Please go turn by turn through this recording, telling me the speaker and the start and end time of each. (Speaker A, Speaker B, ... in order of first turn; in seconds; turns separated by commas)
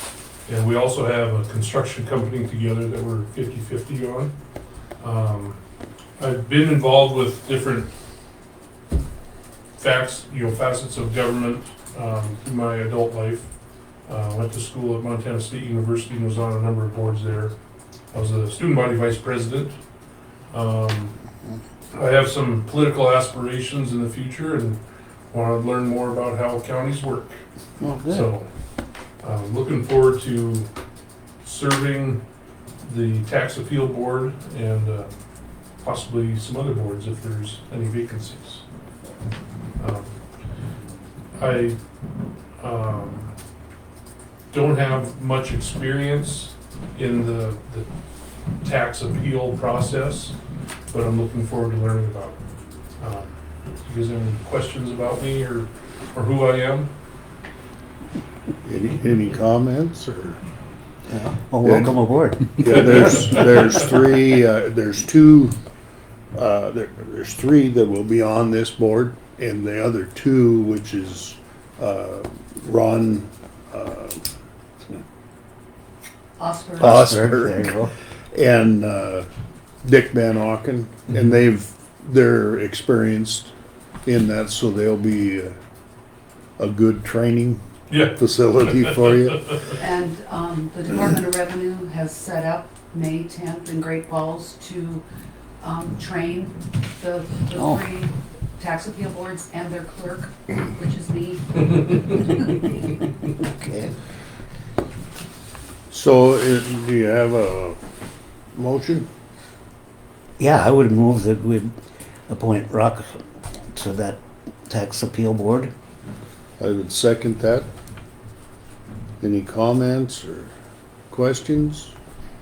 Speaker A: 0.5-4.3, Speaker A: 5.0-5.6, Speaker A: 6.2-7.9, Speaker A: 9.8-13.5, Speaker A: 14.1-17.5, Speaker A: 18.1-19.8, Speaker A: 20.5-21.1, Speaker A: 21.9-27.4, Speaker B: 27.8-28.3, Speaker A: 28.1-28.5, Speaker A: 29.2-30.7, Speaker A: 31.4-32.2, Speaker A: 32.8-35.1, Speaker A: 35.8-38.6, Speaker A: 39.8-40.2, Speaker A: 41.4-41.8, Speaker A: 42.6-43.3, Speaker A: 44.5-47.9, Speaker A: 48.6-50.4, Speaker A: 50.9-52.4, Speaker A: 53.0-53.3, Speaker A: 53.8-56.9, Speaker C: 58.6-60.4, Speaker B: 61.1-63.3, Speaker C: 61.6-61.9, Speaker C: 62.5-65.5, Speaker C: 66.3-74.2, Speaker D: 76.4-76.9, Speaker B: 76.8-77.9, Speaker C: 76.8-77.7, Speaker C: 78.3-79.2, Speaker C: 79.8-83.5, Speaker C: 84.0-85.5, Speaker C: 86.6-87.6, Speaker A: 87.9-89.0, Speaker C: 88.1-89.5, Speaker D: 89.8-95.0, Speaker D: 95.6-103.0, Speaker B: 97.5-97.8, Speaker B: 103.4-103.9, Speaker C: 105.9-107.8, Speaker C: 108.5-109.1, Speaker B: 110.4-111.7, Speaker B: 112.3-115.7, Speaker C: 116.6-117.7, Speaker C: 119.2-120.5, Speaker C: 121.1-121.9